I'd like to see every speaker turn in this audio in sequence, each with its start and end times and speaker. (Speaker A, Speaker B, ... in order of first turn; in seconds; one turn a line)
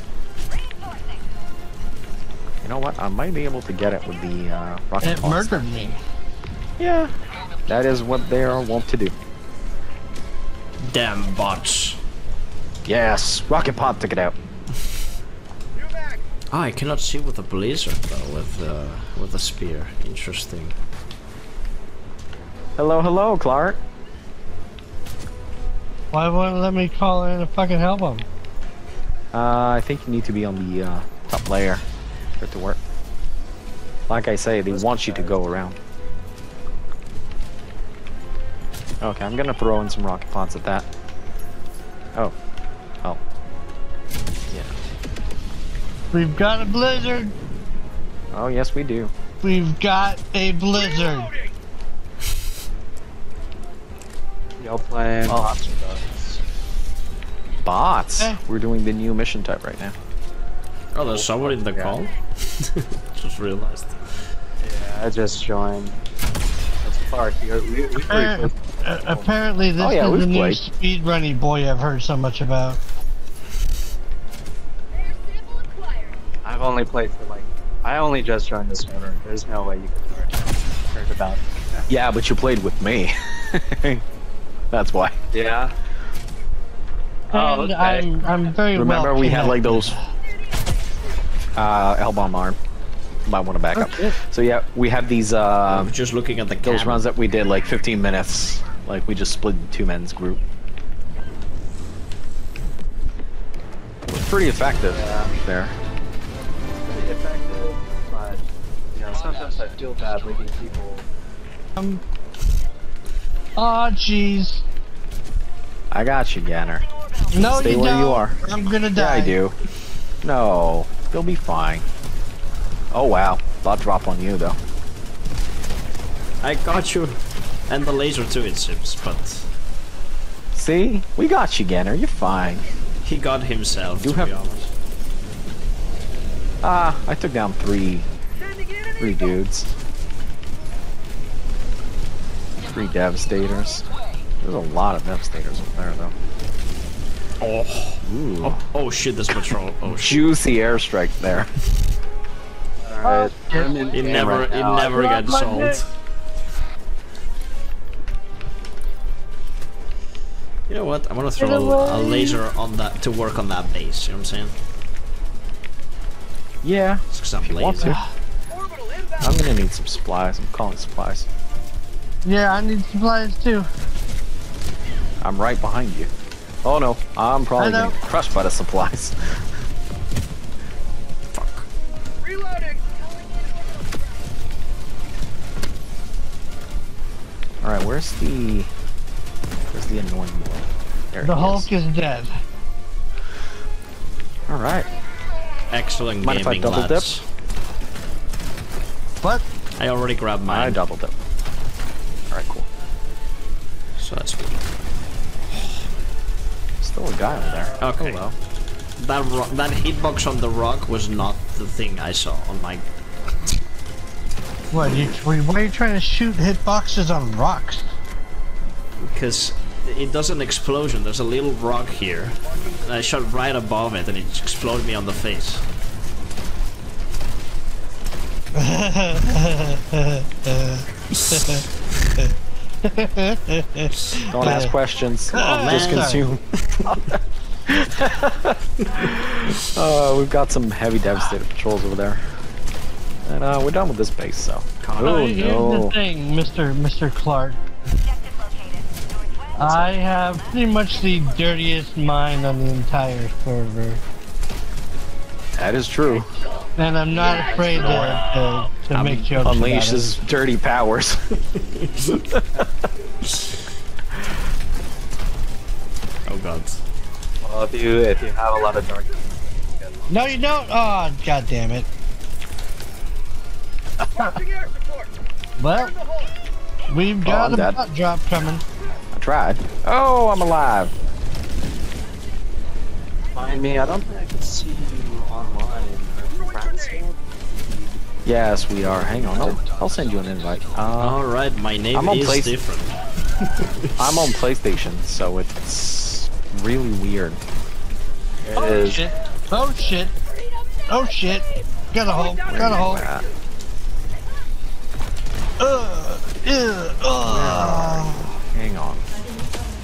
Speaker A: 2.6-5.7
Speaker B: 5.0-6.0
Speaker A: 6.8-7.1
Speaker A: 7.7-9.1
Speaker C: 10.8-12.0
Speaker A: 12.8-14.3
Speaker D: 15.8-16.2
Speaker C: 16.5-20.8
Speaker A: 22.8-23.8
Speaker B: 26.1-28.3
Speaker A: 29.3-31.8
Speaker A: 32.4-32.8
Speaker A: 34.1-35.8
Speaker E: 34.7-35.4
Speaker A: 39.0-40.9
Speaker A: 44.5-44.7
Speaker B: 46.1-47.3
Speaker A: 48.3-49.1
Speaker B: 49.4-51.3
Speaker E: 54.6-56.4
Speaker A: 57.6-60.0
Speaker C: 60.9-64.2
Speaker E: 61.0-62.0
Speaker E: 64.6-66.0
Speaker E: 66.8-69.3
Speaker B: 68.0-72.8
Speaker A: 69.8-70.6
Speaker E: 76.4-81.8
Speaker A: 81.9-84.0
Speaker A: 84.7-85.2
Speaker E: 85.3-85.7
Speaker E: 87.3-88.1
Speaker B: 87.3-90.0
Speaker A: 88.7-90.0
Speaker A: 91.5-92.6
Speaker A: 93.2-95.9
Speaker B: 93.8-94.1
Speaker C: 95.7-97.0
Speaker A: 96.6-100.4
Speaker A: 104.1-105.8
Speaker E: 104.9-105.3
Speaker E: 106.8-111.1
Speaker B: 111.8-112.0
Speaker B: 113.6-114.6
Speaker A: 115.9-118.4
Speaker B: 117.3-119.4
Speaker A: 119.0-119.5
Speaker A: 120.2-121.8
Speaker A: 122.9-124.6
Speaker C: 126.4-129.5
Speaker A: 130.5-132.7
Speaker C: 133.0-134.7
Speaker A: 134.0-134.3
Speaker A: 136.6-138.1
Speaker A: 139.0-139.7
Speaker A: 142.7-143.8
Speaker A: 144.4-146.1
Speaker C: 147.4-150.2
Speaker A: 148.0-148.6
Speaker A: 149.9-151.5
Speaker E: 152.8-155.1
Speaker B: 153.0-153.7
Speaker C: 153.9-155.9
Speaker B: 154.9-155.8
Speaker C: 160.7-164.5
Speaker B: 161.4-162.4
Speaker A: 166.6-168.0
Speaker C: 167.1-168.0
Speaker B: 167.8-168.1
Speaker D: 168.5-169.2
Speaker A: 169.2-171.3
Speaker B: 172.2-173.7
Speaker A: 175.2-176.1
Speaker A: 176.6-179.4
Speaker B: 177.6-177.9
Speaker C: 181.3-181.7
Speaker D: 182.2-184.1
Speaker A: 187.6-188.7
Speaker A: 189.7-191.7
Speaker B: 191.2-192.3
Speaker A: 194.5-194.9
Speaker C: 195.7-197.2
Speaker A: 196.2-197.1
Speaker C: 199.8-200.8
Speaker A: 200.5-201.1
Speaker A: 202.3-202.7
Speaker C: 204.0-204.6
Speaker C: 205.5-205.9
Speaker A: 206.8-208.3
Speaker C: 207.8-208.2
Speaker C: 209.0-212.8
Speaker B: 214.7-217.9
Speaker C: 219.0-225.6
Speaker B: 228.5-231.6
Speaker C: 231.2-231.4
Speaker B: 232.8-234.7
Speaker A: 234.3-237.0
Speaker B: 235.3-236.2
Speaker C: 235.6-236.9
Speaker A: 237.7-242.2
Speaker A: 243.2-245.9
Speaker C: 244.8-245.2
Speaker B: 245.0-247.6
Speaker B: 249.6-254.0
Speaker A: 255.6-256.3
Speaker B: 256.8-260.0
Speaker E: 257.1-258.3
Speaker A: 258.9-261.4
Speaker C: 261.7-262.2
Speaker C: 266.2-266.8
Speaker E: 267.4-270.1
Speaker B: 270.1-271.9
Speaker D: 274.2-275.1
Speaker B: 275.6-275.9
Speaker B: 276.9-278.6
Speaker A: 277.2-277.8
Speaker A: 279.1-280.9
Speaker E: 283.3-287.9
Speaker A: 288.2-291.2
Speaker C: 291.0-293.9
Speaker A: 291.9-292.5
Speaker A: 294.0-297.4
Speaker E: 298.4-299.0
Speaker B: 298.5-300.1
Speaker B: 300.9-303.1
Speaker A: 302.4-303.3
Speaker B: 305.6-308.3
Speaker A: 307.2-309.1